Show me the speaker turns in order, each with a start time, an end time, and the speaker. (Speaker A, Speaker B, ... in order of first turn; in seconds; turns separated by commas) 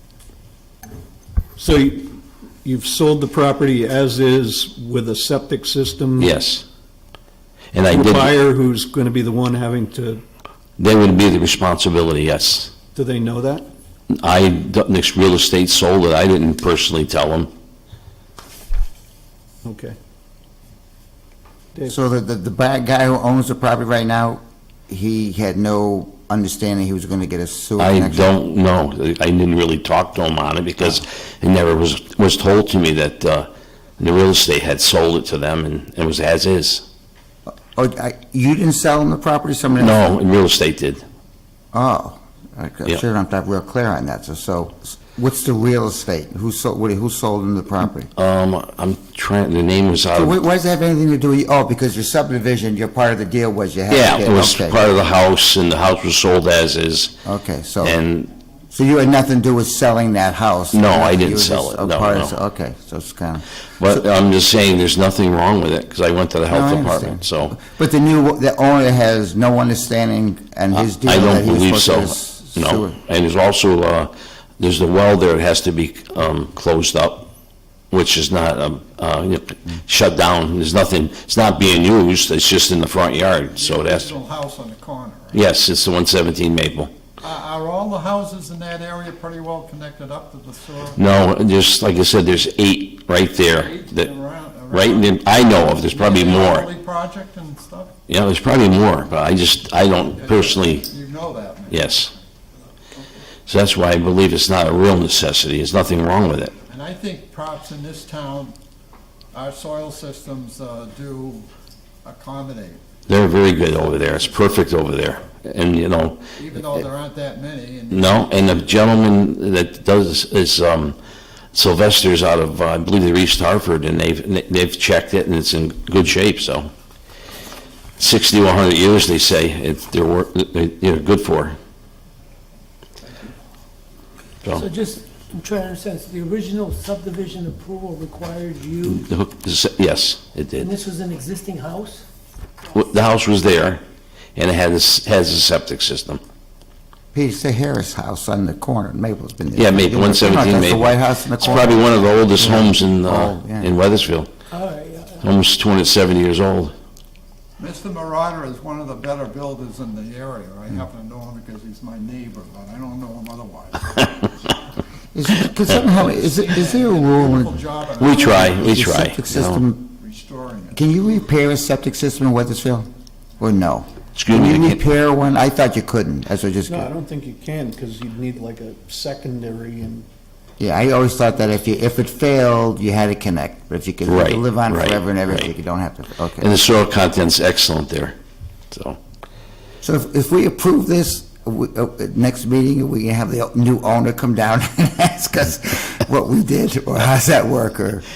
Speaker A: 1.6-6.3, Speaker B: 6.2-6.7, Speaker B: 7.7-8.4, Speaker A: 7.9-10.2, Speaker B: 10.8-12.7, Speaker A: 12.9-13.7, Speaker B: 14.1-17.5, Speaker A: 19.6-19.9, Speaker C: 21.9-28.3, Speaker B: 27.8-33.5, Speaker B: 34.0-36.8, Speaker C: 37.7-40.1, Speaker B: 39.8-41.0, Speaker C: 41.7-48.1, Speaker B: 48.1-50.4, Speaker C: 50.1-54.9, Speaker B: 53.9-57.1, Speaker C: 57.2-58.0, Speaker B: 57.8-58.3, Speaker C: 58.7-64.0, Speaker B: 60.7-62.4, Speaker B: 63.8-67.5, Speaker C: 66.5-73.0, Speaker B: 70.7-77.3, Speaker B: 77.9-84.1, Speaker D: 83.5-85.4, Speaker B: 85.3-86.9, Speaker D: 87.2-91.1, Speaker B: 91.0-94.1, Speaker D: 93.7-97.9, Speaker B: 94.7-96.7, Speaker B: 98.1-100.9, Speaker D: 100.2-102.2, Speaker B: 101.7-102.1, Speaker B: 103.5-106.5, Speaker D: 106.7-108.5, Speaker D: 109.3-111.5, Speaker D: 112.0-112.8, Speaker B: 113.1-116.3, Speaker D: 113.7-114.8, Speaker D: 116.3-118.3, Speaker B: 117.9-121.0, Speaker B: 121.5-126.7, Speaker B: 128.0-131.6, Speaker E: 134.5-139.0, Speaker B: 138.8-140.7, Speaker E: 140.6-142.1, Speaker B: 142.7-143.8, Speaker B: 144.3-146.2, Speaker C: 147.1-153.7, Speaker B: 149.6-154.3, Speaker E: 154.5-155.2, Speaker B: 155.2-156.7, Speaker D: 157.6-164.5, Speaker C: 165.1-169.9, Speaker D: 165.8-168.7, Speaker B: 168.0-169.6, Speaker D: 170.0-170.8, Speaker C: 170.7-172.9, Speaker C: 173.4-176.9, Speaker B: 174.2-174.8, Speaker A: 176.7-180.1, Speaker C: 180.6-186.5, Speaker B: 184.0-185.5, Speaker B: 186.4-188.2, Speaker B: 188.7-189.0, Speaker C: 189.8-198.0